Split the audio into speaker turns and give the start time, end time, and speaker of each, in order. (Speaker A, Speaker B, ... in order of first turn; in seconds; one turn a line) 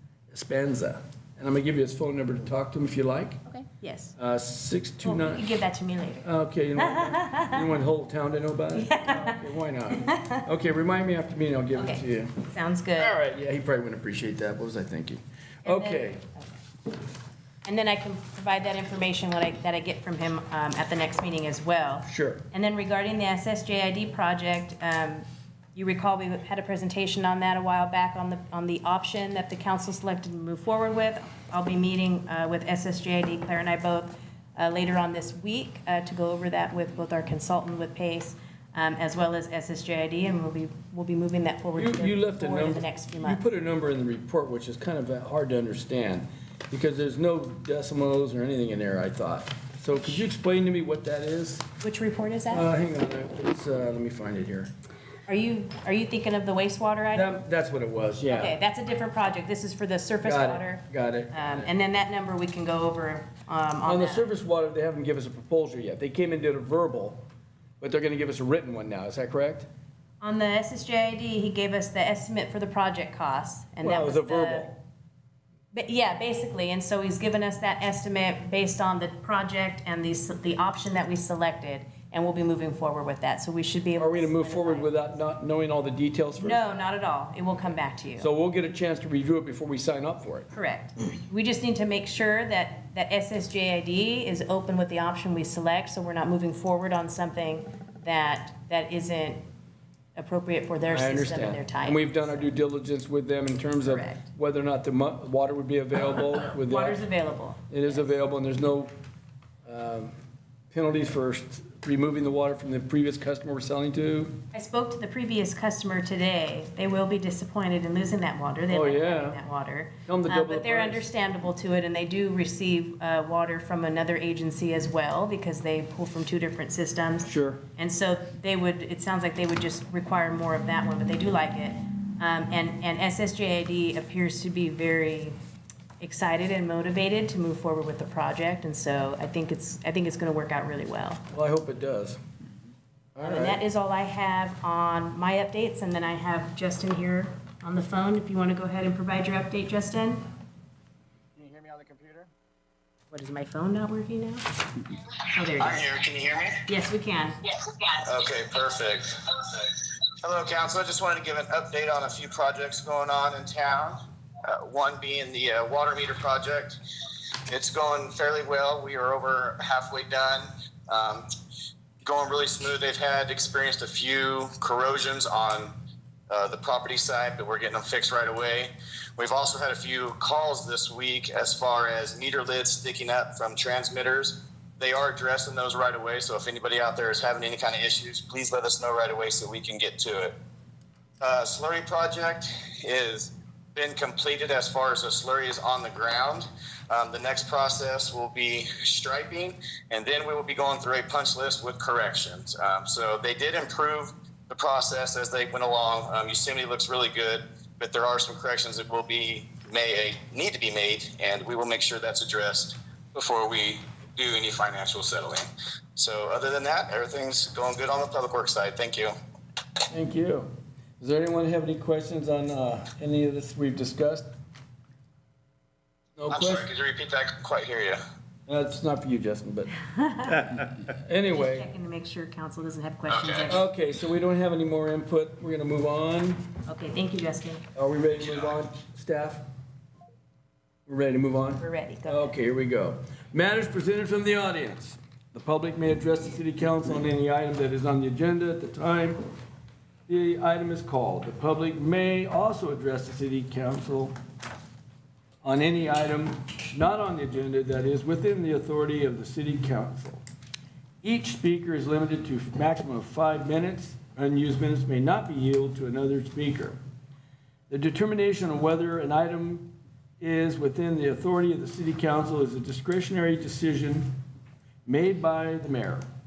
Speaker A: 0.3-3.4
Speaker B: 3.5-4.2
Speaker A: 4.2-5.5
Speaker B: 5.0-7.6
Speaker A: 6.2-12.4
Speaker B: 8.8-10.4
Speaker B: 11.8-13.2
Speaker A: 13.0-16.2
Speaker B: 15.7-16.5
Speaker B: 17.6-43.4
Speaker A: 22.1-22.4
Speaker A: 41.8-51.7
Speaker B: 51.8-52.7
Speaker A: 52.5-54.7
Speaker B: 55.3-57.3
Speaker A: 57.1-58.5
Speaker B: 58.3-64.3
Speaker A: 60.2-61.7
Speaker A: 63.9-67.2
Speaker A: 67.8-69.7
Speaker B: 70.2-74.7
Speaker A: 73.8-74.8
Speaker B: 75.7-85.1
Speaker A: 84.0-86.7
Speaker B: 86.4-88.3
Speaker A: 88.2-90.5
Speaker B: 90.5-99.4
Speaker B: 100.2-102.5
Speaker A: 100.9-107.0
Speaker B: 103.8-104.2
Speaker B: 106.7-107.6
Speaker A: 107.7-108.9
Speaker A: 109.7-110.1
Speaker A: 110.7-114.4
Speaker B: 114.5-135.3
Speaker A: 118.7-119.4
Speaker A: 120.1-121.0
Speaker A: 127.2-127.7
Speaker B: 136.0-141.2
Speaker A: 141.3-142.2
Speaker A: 143.2-143.6
Speaker B: 143.2-150.2
Speaker B: 153.1-154.4
Speaker B: 155.1-155.8
Speaker C: 155.6-156.7
Speaker B: 156.7-157.9
Speaker C: 157.9-166.8
Speaker C: 167.5-171.3
Speaker C: 172.0-175.7
Speaker C: 176.3-190.4
Speaker C: 191.2-219.2
Speaker A: 219.9-224.3
Speaker A: 226.2-226.7
Speaker C: 226.3-228.0
Speaker A: 228.5-231.7
Speaker B: 229.9-230.5
Speaker B: 231.3-233.6
Speaker A: 233.4-236.4
Speaker B: 236.7-237.7
Speaker A: 237.8-239.4
Speaker A: 240.9-249.2
Speaker B: 241.6-242.3
Speaker A: 250.1-254.1
Speaker A: 255.4-260.2
Speaker A: 261.0-266.8
Speaker A: 267.7-269.7
Speaker A: 270.2-274.1
Speaker A: 274.9-276.1